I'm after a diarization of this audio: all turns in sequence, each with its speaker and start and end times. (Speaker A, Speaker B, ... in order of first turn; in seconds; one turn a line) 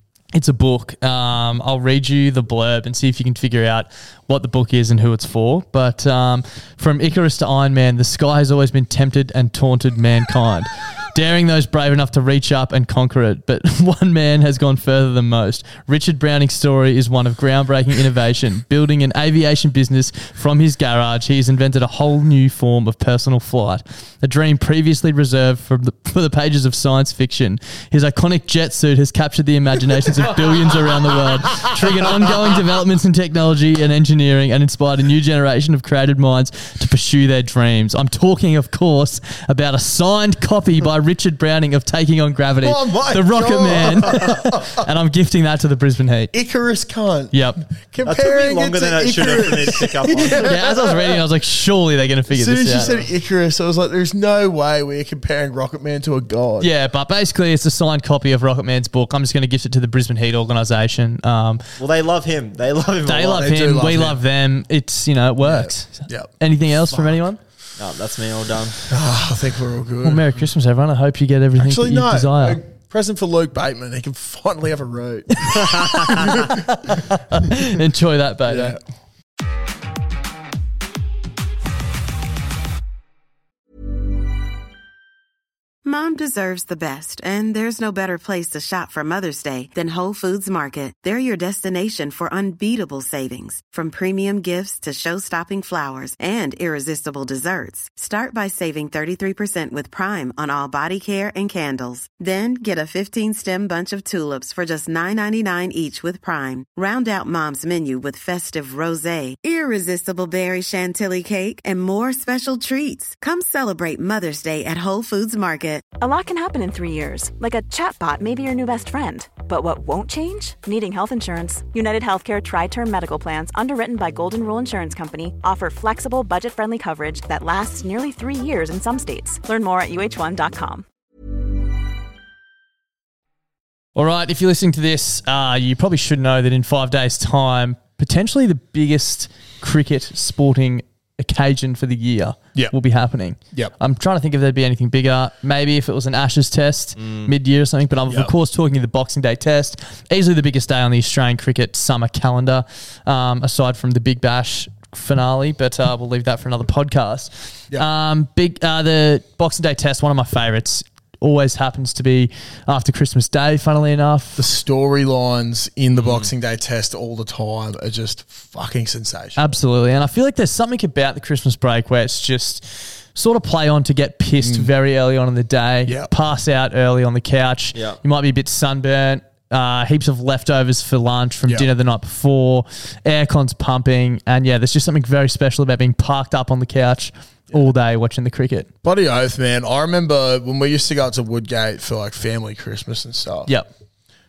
Speaker A: 0.3-46.3
Speaker B: 42.6-44.9
Speaker B: 46.3-51.2
Speaker A: 47.3-47.6
Speaker C: 48.0-50.7
Speaker A: 50.3-53.0
Speaker B: 52.3-56.7
Speaker A: 56.6-61.6
Speaker C: 61.8-63.5
Speaker A: 63.1-67.4
Speaker B: 63.3-64.2
Speaker B: 65.4-67.2
Speaker C: 67.8-68.8
Speaker B: 68.9-70.4
Speaker A: 70.0-72.6
Speaker B: 71.6-77.0
Speaker A: 75.5-78.8
Speaker B: 78.5-78.8
Speaker D: 85.8-115.9
Speaker E: 116.0-130.8
Speaker A: 133.9-164.4
Speaker C: 147.0-147.3
Speaker B: 164.4-169.5
Speaker C: 166.0-166.3
Speaker A: 169.4-188.7
Speaker B: 174.4-174.7
Speaker B: 175.9-176.1
Speaker C: 177.7-178.0
Speaker B: 188.8-193.5